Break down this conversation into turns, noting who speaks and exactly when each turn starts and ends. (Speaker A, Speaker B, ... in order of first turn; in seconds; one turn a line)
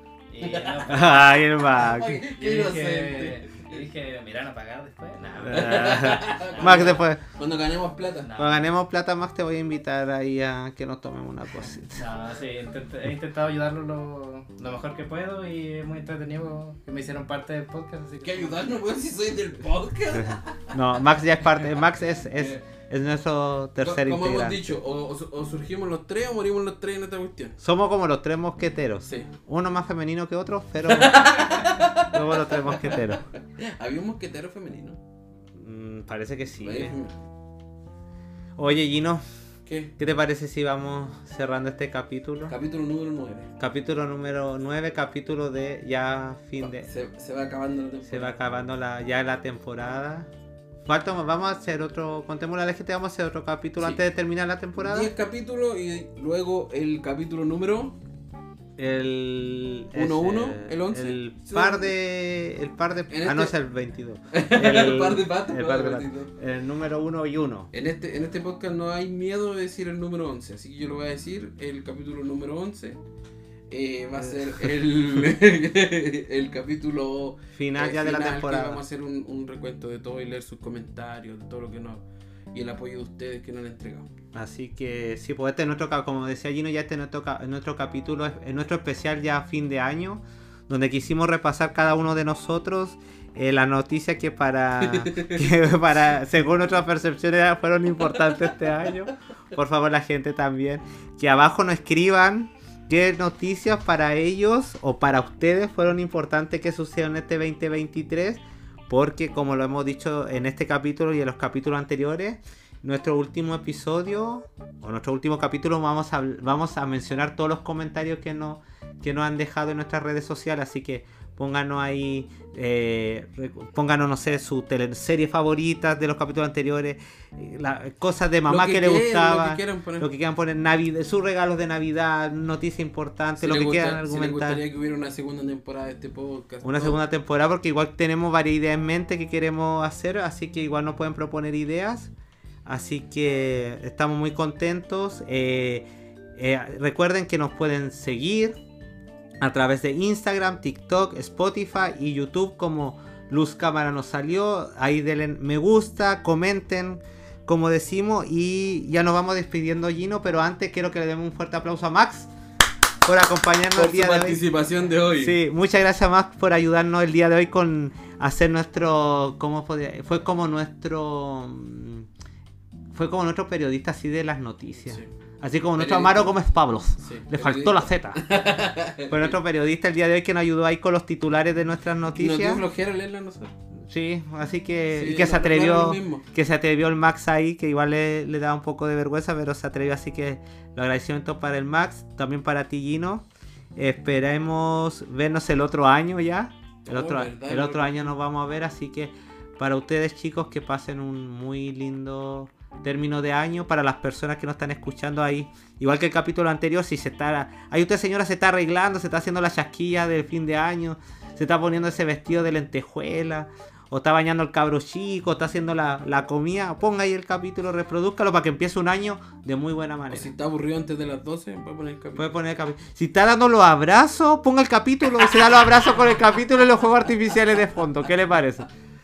Speaker A: 0.3-1.4
Speaker B: 0.4-3.8
Speaker C: 0.9-2.2
Speaker A: 2.4-7.0
Speaker C: 5.4-7.2
Speaker B: 5.5-8.3
Speaker A: 8.3-8.6
Speaker C: 8.4-12.0
Speaker A: 11.9-18.9
Speaker B: 18.2-20.8
Speaker C: 20.2-24.7
Speaker B: 22.4-22.6
Speaker B: 23.8-27.6
Speaker C: 27.6-33.2
Speaker B: 29.1-29.3
Speaker B: 30.9-35.0
Speaker C: 35.5-37.0
Speaker B: 36.6-37.2
Speaker C: 38.6-39.2
Speaker B: 39.7-40.0
Speaker C: 40.0-42.5
Speaker B: 42.5-43.5
Speaker C: 43.6-46.9
Speaker B: 46.6-48.4
Speaker C: 48.1-50.3
Speaker C: 50.9-55.1
Speaker B: 53.8-54.0
Speaker B: 54.8-58.0
Speaker C: 58.8-67.7
Speaker B: 59.9-61.9
Speaker B: 63.1-63.5
Speaker B: 64.3-66.3
Speaker B: 67.7-73.0
Speaker B: 73.7-84.1
Speaker C: 77.6-78.8
Speaker C: 84.3-134.6
Speaker B: 94.8-95.5
Speaker B: 128.5-130.1
Speaker B: 133.4-137.0
Speaker C: 136.6-142.1
Speaker C: 142.7-148.6
Speaker C: 149.4-162.3
Speaker C: 163.0-164.4
Speaker B: 163.7-165.4
Speaker C: 165.2-172.1
Speaker C: 172.9-178.3
Speaker B: 175.8-176.3
Speaker B: 177.0-179.4
Speaker C: 179.1-182.6
Speaker B: 182.1-183.5
Speaker C: 183.8-220.3
Speaker B: 184.9-186.3
Speaker B: 196.8-198.1
Speaker B: 220.1-222.3
Speaker C: 222.2-228.7